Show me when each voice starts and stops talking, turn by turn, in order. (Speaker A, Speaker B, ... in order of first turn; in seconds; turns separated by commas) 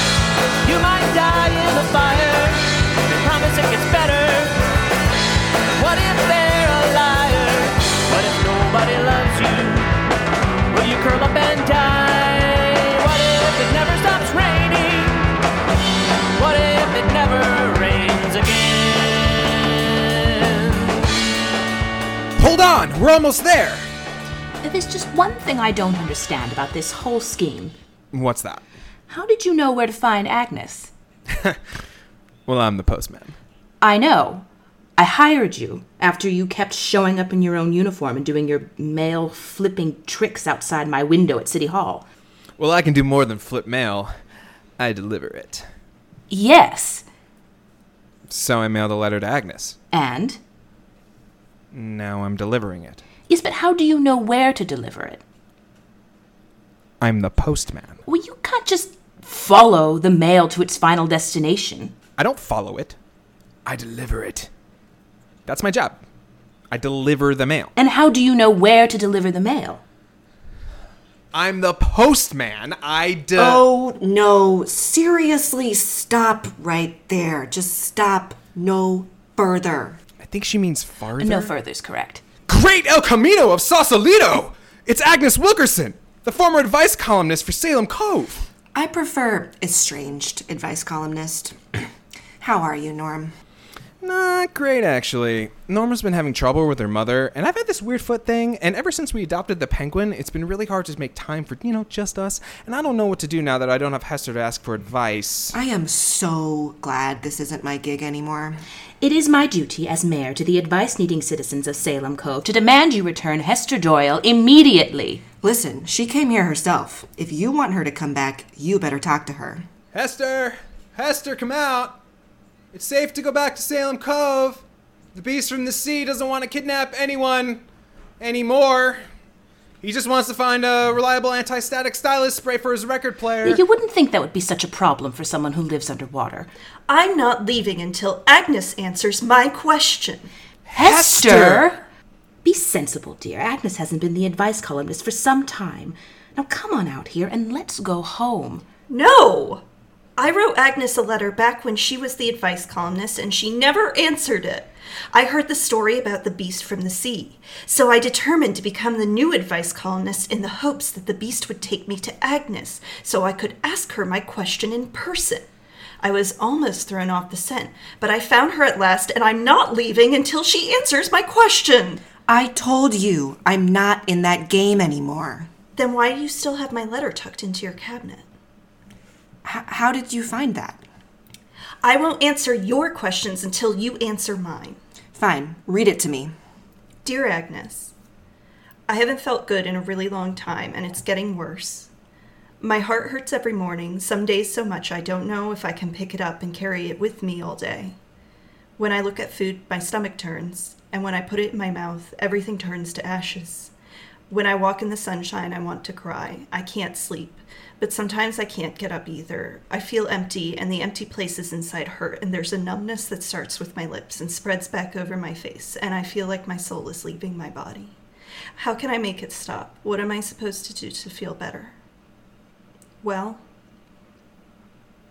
Speaker A: 0.6-4.6, Speaker A: 5.8-10.0, Speaker A: 10.7-15.3, Speaker A: 16.3-21.2, Speaker B: 22.4-23.9, Speaker C: 24.6-27.7, Speaker B: 28.1-28.6, Speaker C: 29.1-30.9, Speaker B: 32.5-33.3, Speaker C: 33.8-34.4, Speaker C: 35.0-42.0, Speaker B: 42.6-44.1, Speaker B: 44.8-45.6, Speaker C: 46.3-47.0, Speaker B: 48.3-49.8, Speaker C: 49.9-50.4, Speaker B: 51.7-53.0, Speaker C: 53.3-55.2, Speaker B: 57.0-58.0, Speaker C: 58.0-61.9, Speaker B: 62.2-63.0, Speaker B: 63.6-64.5, Speaker B: 65.5-66.0, Speaker B: 66.7-67.7, Speaker C: 67.8-69.8, Speaker B: 71.3-73.6, Speaker D: 73.3-80.0, Speaker B: 80.2-81.5, Speaker C: 81.2-82.2, Speaker B: 82.5-88.5, Speaker D: 88.7-91.9, Speaker D: 92.4-93.3, Speaker B: 94.0-105.5, Speaker D: 105.5-108.6, Speaker C: 109.0-115.2, Speaker D: 115.4-119.6, Speaker B: 119.9-122.0, Speaker B: 122.7-127.6, Speaker B: 128.2-129.0, Speaker B: 129.8-133.6, Speaker C: 133.4-136.5, Speaker E: 136.9-140.3, Speaker B: 140.7-141.7, Speaker C: 140.7-141.8, Speaker C: 142.4-148.6, Speaker E: 148.9-149.6, Speaker E: 150.2-165.5, Speaker E: 166.0-172.0, Speaker D: 172.2-175.5, Speaker E: 175.8-178.2, Speaker D: 179.4-180.8, Speaker E: 181.8-184.8, Speaker D: 185.1-186.3, Speaker E: 187.0-187.9, Speaker E: 188.9-191.9, Speaker E: 192.6-197.9, Speaker E: 198.8-203.7, Speaker E: 204.3-217.9, Speaker E: 218.6-221.7, Speaker E: 223.0-223.4